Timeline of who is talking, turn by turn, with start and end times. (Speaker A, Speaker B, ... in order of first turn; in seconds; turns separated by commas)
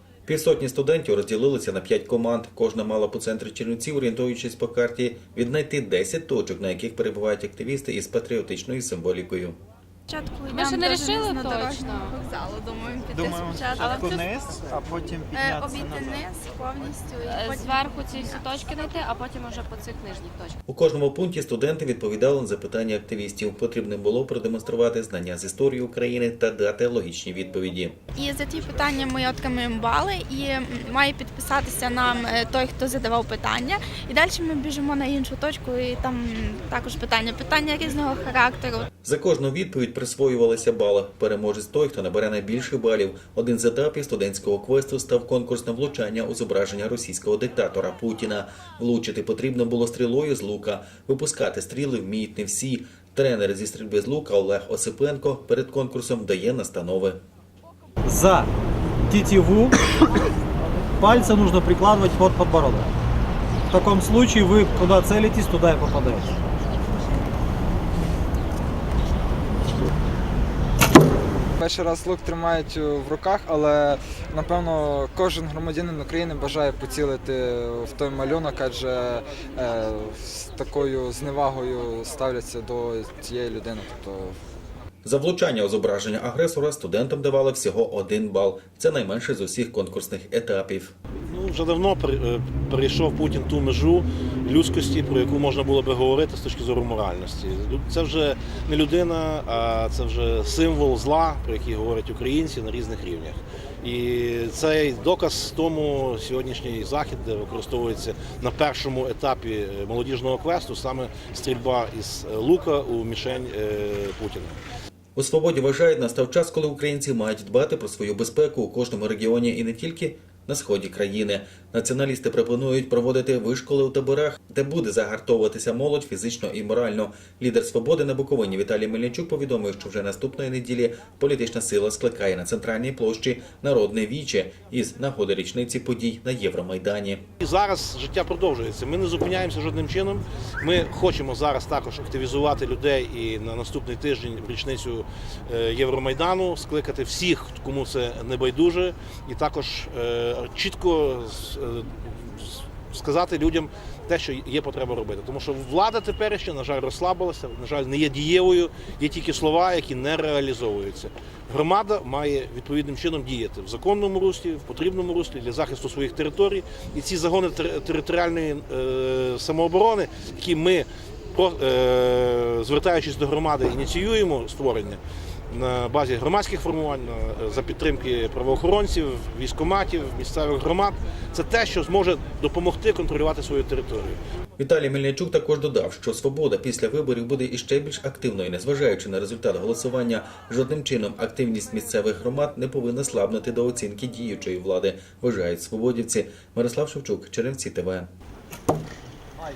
Speaker A: 0.2-9.6, Speaker B: 10.1-14.2, Speaker C: 10.5-12.1, Speaker D: 13.1-16.2, Speaker C: 13.8-14.2, Speaker B: 15.3-18.6, Speaker C: 17.2-20.6, Speaker A: 20.7-28.0, Speaker B: 28.1-38.9, Speaker A: 39.0-57.2, Speaker D: 58.0-58.5, Speaker D: 59.1-59.8, Speaker D: 61.0-62.9, Speaker D: 63.7-66.3, Speaker E: 71.6-84.4, Speaker A: 85.0-90.9, Speaker F: 91.3-114.6, Speaker A: 115.2-137.2, Speaker F: 137.4-184.2, Speaker A: 184.6-198.1